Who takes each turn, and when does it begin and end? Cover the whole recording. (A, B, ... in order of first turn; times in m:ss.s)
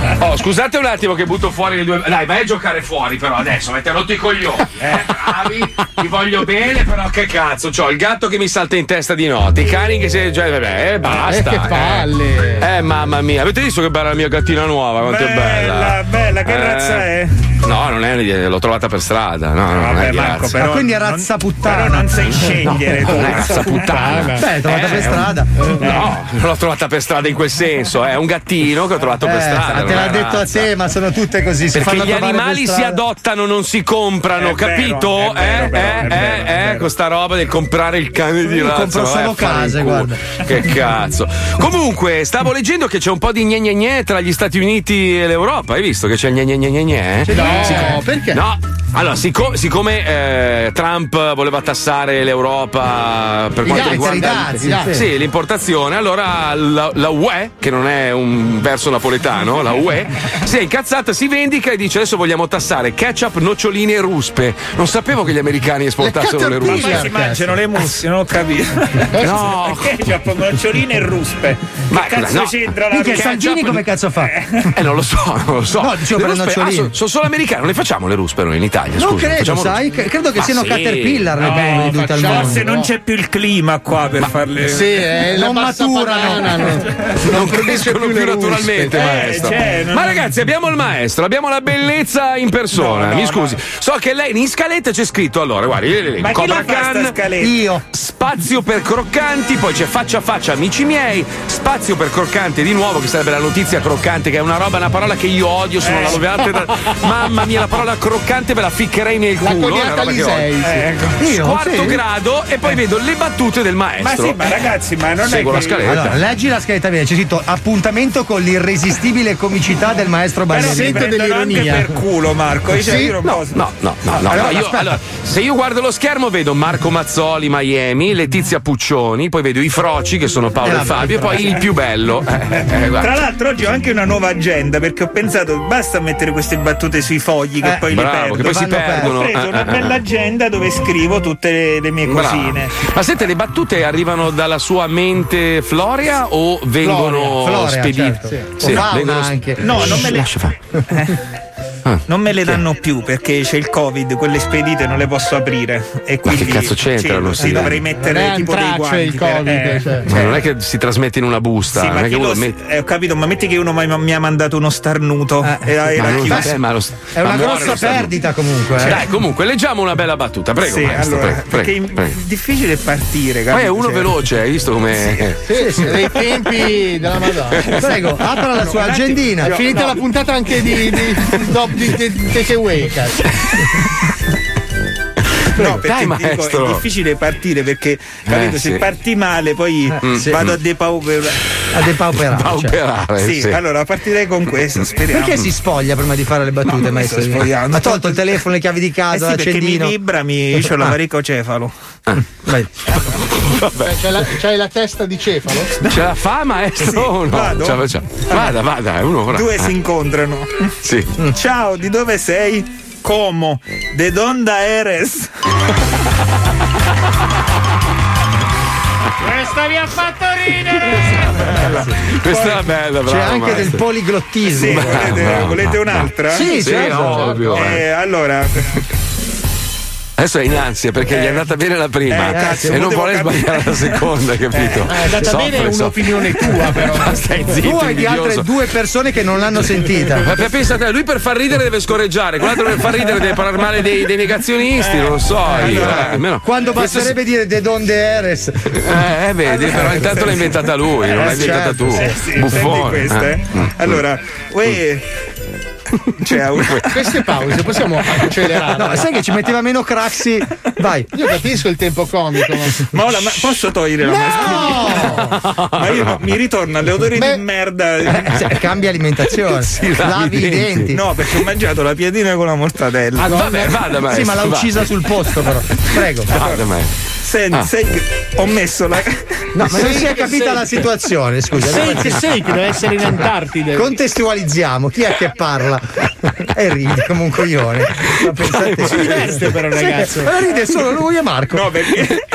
0:00.2-0:17.1 A
0:11.1-0:12.7 B
0:15.0-0:17.4 C
0:17.6-0:20.6 A
0:19.7-0:23.8 C
0:20.6-0:22.4 D
0:22.3-0:30.7 A
0:23.3-0:24.3 B
0:24.4-0:25.7 D
0:25.8-0:26.1 C
0:29.2-0:33.0 D
0:31.7-1:07.1 A
0:34.4-0:36.9 C
0:38.4-0:40.2 D
0:47.2-0:48.0 D
0:47.3-0:48.4 B
0:53.6-0:55.1 D
0:53.7-0:54.9 B
1:06.0-1:07.6 B
1:06.6-1:13.4 C
1:09.1-1:09.5 B
1:09.2-1:10.0 A
1:11.9-1:13.8 A
1:12.9-1:14.3 D
1:14.2-1:14.7 C
1:14.7-1:19.8 A
1:15.8-1:16.9 D
1:19.0-1:22.7 D
1:20.4-1:21.5 A
1:21.4-1:25.0 C
1:21.6-1:22.9 B
1:24.7-1:29.5 B
1:25.3-1:26.8 D
1:27.2-1:37.2 A
1:28.9-1:30.3 C
1:32.7-1:33.6 C
1:36.2-1:37.5 C
1:37.4-1:37.8 D
1:37.9-1:50.5 A
1:45.8-1:46.2 C
1:49.4-1:50.8 B
1:50.6-1:51.2 C
1:51.2-1:52.0 D
1:51.2-1:54.4 A
1:54.0-1:56.0 C
1:55.2-1:56.2 A
1:55.8-2:01.0 D
2:00.5-2:03.6 C
2:00.5-2:01.9 B
2:02.7-2:03.2 D
2:03.2-2:13.2 A
2:04.2-2:05.0 D
2:10.6-2:11.6 D
2:13.0-2:22.7 C
2:17.9-2:20.0 A
2:18.4-2:19.2 D
2:22.0-2:30.6 A
2:26.8-2:30.1 D
2:29.6-2:30.3 C
2:31.8-2:32.6 A
2:32.1-2:40.3 C
2:36.2-2:37.8 A
2:38.0-2:40.0 B
2:40.0-2:42.6 A
2:41.7-2:46.5 C
2:45.4-2:46.6 D
2:46.0-2:48.1 A
2:47.1-2:49.0 D
2:48.8-2:52.2 A
2:50.6-2:54.1 C
2:53.5-2:55.4 A
2:55.4-2:57.8 B
2:55.5-2:56.0 D
2:57.8-2:59.6 D
2:58.4-3:00.0 C
2:59.4-3:03.3 B
3:05.6-3:11.4 C
3:05.6-3:06.8 A
3:08.2-3:08.8 A
3:10.0-3:10.6 A
3:10.0-3:10.4 D
3:11.7-3:12.8 D
3:12.3-3:13.6 A
3:13.2-3:15.5 C
3:15.1-3:19.9 D
3:16.6-3:18.4 C
3:19.1-3:21.7 C
3:22.4-3:22.7 D
3:23.2-3:24.1 A
3:23.8-3:25.9 B
3:25.9-3:29.7 A
3:26.8-3:28.6 C
3:29.3-3:30.7 C
3:30.8-3:31.1 A
3:31.3-3:35.3 C
3:39.2-3:41.3 E
3:41.5-3:43.8 A
3:41.5-3:42.7 C
3:43.0-3:45.2 D
3:44.5-3:46.6 C
3:44.6-3:47.8 A
3:46.3-3:47.5 D
3:47.0-3:47.5 B
3:47.5-3:48.6 C
3:50.2-3:58.5 A
3:51.1-3:51.5 C
3:52.1-3:54.9 C
3:52.3-3:52.8 D
3:54.9-3:57.2 B
3:55.0-3:55.5 D
3:57.6-4:00.3 D
4:00.2-4:07.2 A
4:04.8-4:06.2 C
4:05.6-4:08.8 D
4:08.8-4:13.9 A
4:09.5-4:10.5 C
4:11.1-4:15.0 C
4:11.2-4:12.2 D
4:16.2-4:17.0 C
4:16.6-4:16.9 A
4:16.9-4:19.1 B
4:18.7-4:21.1 D
4:21.1-4:23.0 B
4:22.9-4:28.5 C
4:24.0-4:25.3 D
4:25.4-4:26.2 A
4:28.1-4:31.0 D
4:29.5-4:30.9 A
4:30.9-4:33.5 C
4:33.2-4:33.8 B
4:33.3-4:34.8 A
4:34.0-4:36.3 D
4:36.3-4:36.9 A
4:36.3-4:36.6 C
4:37.2-4:39.4 C
4:39.5-4:43.0 D
4:39.7-4:40.8 B
4:41.6-4:43.9 B
4:43.7-4:51.7 D
4:48.2-4:49.2 A
4:48.9-4:50.3 B
4:51.5-4:52.2 C